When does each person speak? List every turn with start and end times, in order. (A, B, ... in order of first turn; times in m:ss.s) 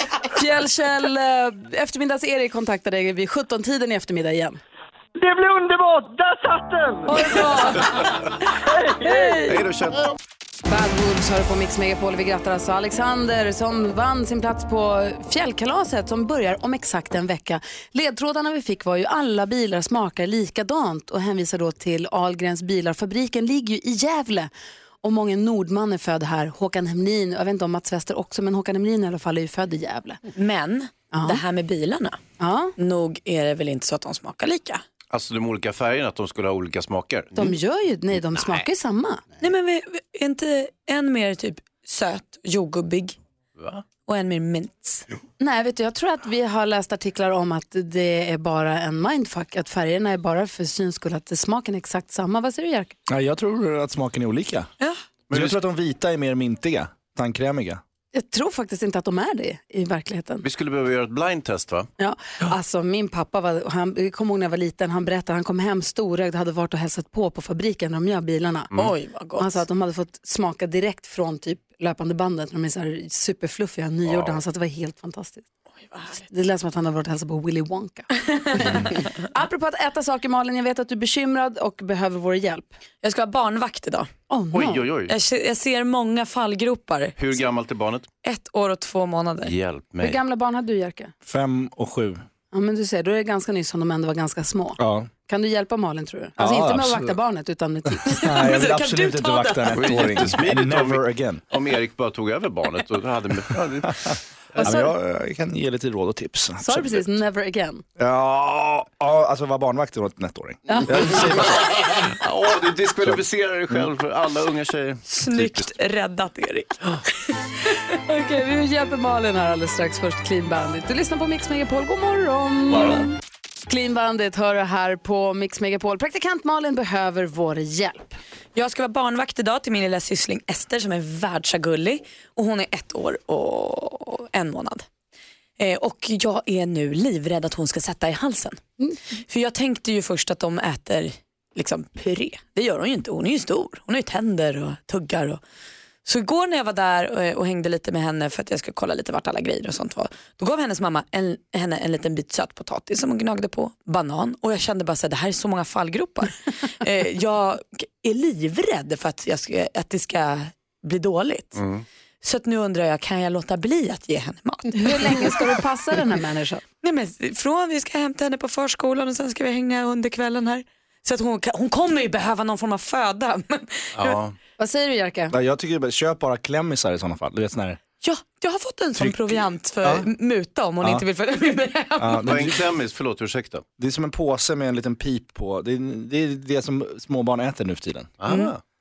0:00.2-0:04.6 A
0:05.2-0:07.7 B
0:07.1-0:09.7 A
0:08.8-0:09.4 B
0:09.4-0:10.1 C
0:10.7-0:24.5 A
0:25.0-0:30.2 A
0:30.3-0:32.2 D
0:31.1-0:31.4 A
0:32.4-0:32.7 A
0:32.8-0:34.8 D
0:35.1-0:37.6 C
0:37.4-0:39.2 A
0:38.3-0:38.7 C
0:39.4-0:43.2 D
0:43.6-0:43.8 C
0:44.1-0:45.1 D
0:45.4-0:53.0 A
0:53.1-0:54.7 E
0:55.3-0:55.6 C
0:55.3-0:57.8 E
0:58.1-1:00.5 A
1:00.4-1:01.9 C
1:02.0-1:08.7 A
1:08.8-1:09.6 D
1:09.4-1:15.4 A
1:14.1-1:14.4 C
1:15.9-1:16.3 D
1:16.3-1:22.7 A
1:23.0-1:24.1 D
1:24.3-1:24.9 A
1:24.5-1:25.1 C
1:25.1-1:27.4 D
1:27.2-1:28.1 C
1:28.2-1:29.5 D
1:29.4-1:30.2 C
1:30.0-1:31.1 A
1:31.2-1:32.2 E
1:32.5-1:38.5 A
1:34.8-1:35.1 E
1:36.4-1:37.2 E
1:38.1-1:41.4 E
1:38.2-1:40.3 D
1:39.7-1:44.8 C
1:44.1-1:47.1 E
1:44.6-1:45.0 A
1:46.6-1:47.8 A
1:48.0-1:51.8 E
1:50.7-1:51.5 A
1:51.7-1:55.7 C
1:55.1-1:56.9 D
1:57.9-2:03.2 A
2:02.7-2:03.0 C
2:03.7-2:08.2 A
2:08.6-2:14.9 D
2:15.6-2:18.6 D
2:19.2-2:25.4 D
2:26.0-2:41.6 D
2:41.6-2:41.8 C
2:42.2-2:45.6 D
2:44.8-2:46.6 A
2:46.8-2:54.2 D
2:54.0-2:54.4 C
2:54.6-2:55.4 A
2:55.3-2:57.8 E
2:58.0-3:02.3 D
2:59.0-3:00.1 E
3:02.0-3:02.6 E
3:02.2-3:03.6 C
3:03.8-3:08.2 E
3:08.2-3:08.6 C